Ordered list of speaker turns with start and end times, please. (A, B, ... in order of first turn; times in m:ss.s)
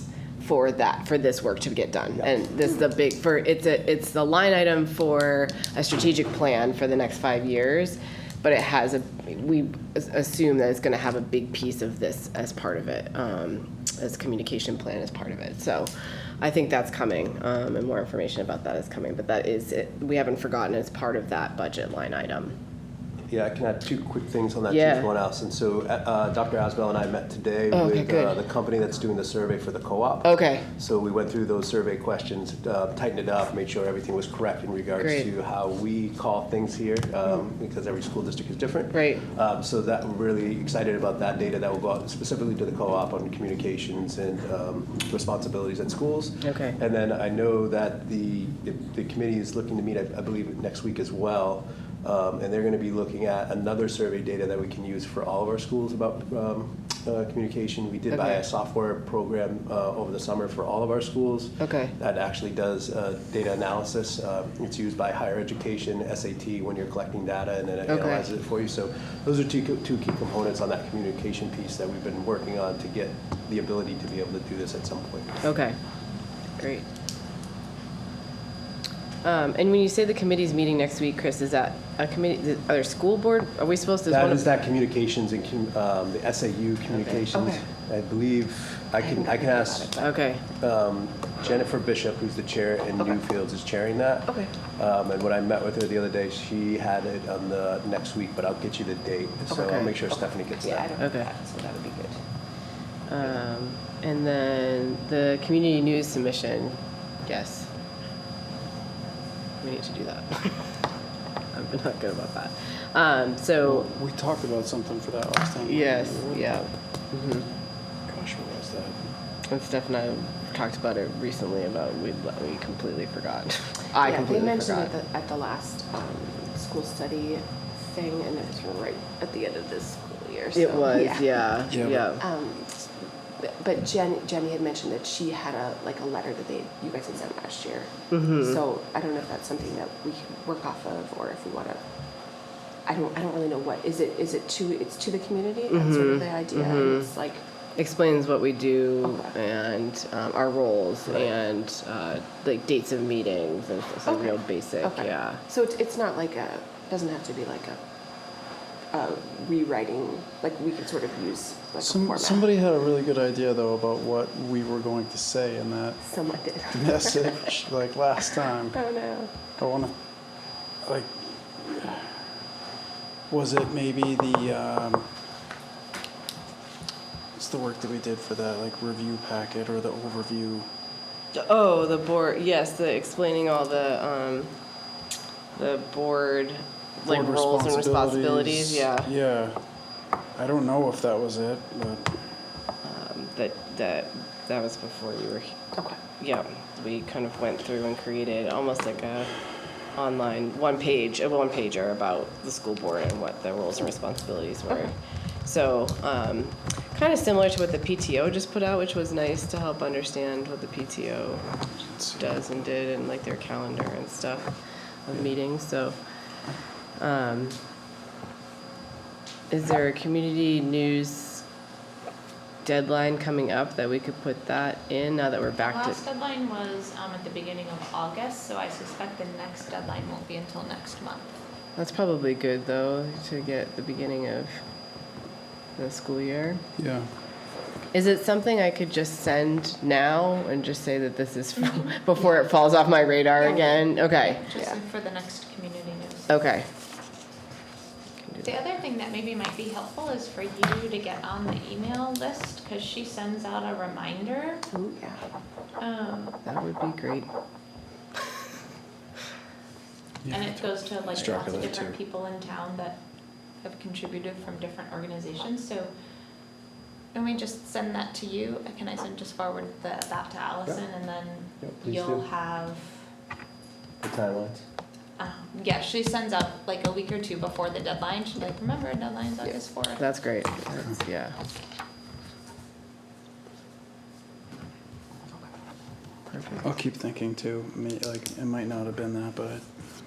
0:00.4-0:22.6 A
0:23.3-1:15.4 B
0:24.7-0:25.1 A
0:27.7-0:28.4 A
0:30.2-0:30.7 A
0:35.0-0:35.3 A
0:38.9-0:39.2 A
0:46.4-0:46.8 A
0:58.1-0:58.4 A
1:01.6-1:01.9 A
1:07.9-1:08.3 A
1:15.4-1:15.8 A
1:16.6-1:16.9 A
1:19.2-1:24.4 A
1:24.1-1:30.0 B
1:27.3-1:27.6 C
1:29.0-1:30.1 C
1:30.0-1:30.4 A
1:30.6-1:40.9 B
1:39.5-1:42.2 C
1:41.0-1:41.3 A
1:43.1-1:47.7 A
1:49.6-1:50.8 A
1:51.5-1:53.9 A
1:53.6-1:56.6 D
1:55.6-1:57.5 A
1:58.1-1:59.0 D
1:59.5-2:04.9 A
2:04.0-2:21.8 C
2:10.5-2:12.2 A
2:11.7-2:12.0 D
2:18.1-2:18.6 A
2:22.8-2:27.4 C
2:25.7-2:27.1 A
2:27.8-2:35.4 A
2:29.0-2:29.3 C
2:34.0-2:37.8 C
2:38.9-2:42.5 C
2:41.8-2:46.0 D
2:46.0-2:47.5 C
2:46.7-2:48.8 D
2:48.6-2:49.3 C
2:49.6-2:50.0 D
2:50.8-2:52.2 D
2:53.3-2:55.1 D
2:57.3-3:00.7 D
3:01.3-3:04.6 A
3:05.5-3:09.1 A
3:07.0-3:09.6 D
3:10.4-3:12.2 D
3:12.8-3:15.6 A
3:16.2-3:19.3 A
3:19.9-3:31.4 A
3:31.8-3:32.3 D
3:32.1-3:36.0 A
3:37.0-3:37.6 A
3:39.5-3:41.4 A
3:42.6-3:46.0 A
3:45.6-3:51.4 E
3:51.8-3:54.6 A
3:55.8-3:56.6 A
3:56.8-3:57.1 D
3:57.9-4:04.8 A
4:03.4-4:06.4 E
4:06.3-4:06.7 A
4:08.2-4:08.6 A
4:08.4-4:14.6 E
4:14.7-4:15.2 C
4:15.8-4:16.4 E
4:16.4-4:17.3 A
4:20.2-4:22.0 D
4:20.3-4:23.0 E
4:23.6-4:25.9 E
4:27.1-4:33.0 E
4:31.6-4:32.2 B
4:34.0-4:34.6 B
4:35.2-4:40.0 E
4:40.0-4:41.4 A
4:46.3-4:46.7 A
4:46.6-4:49.6 D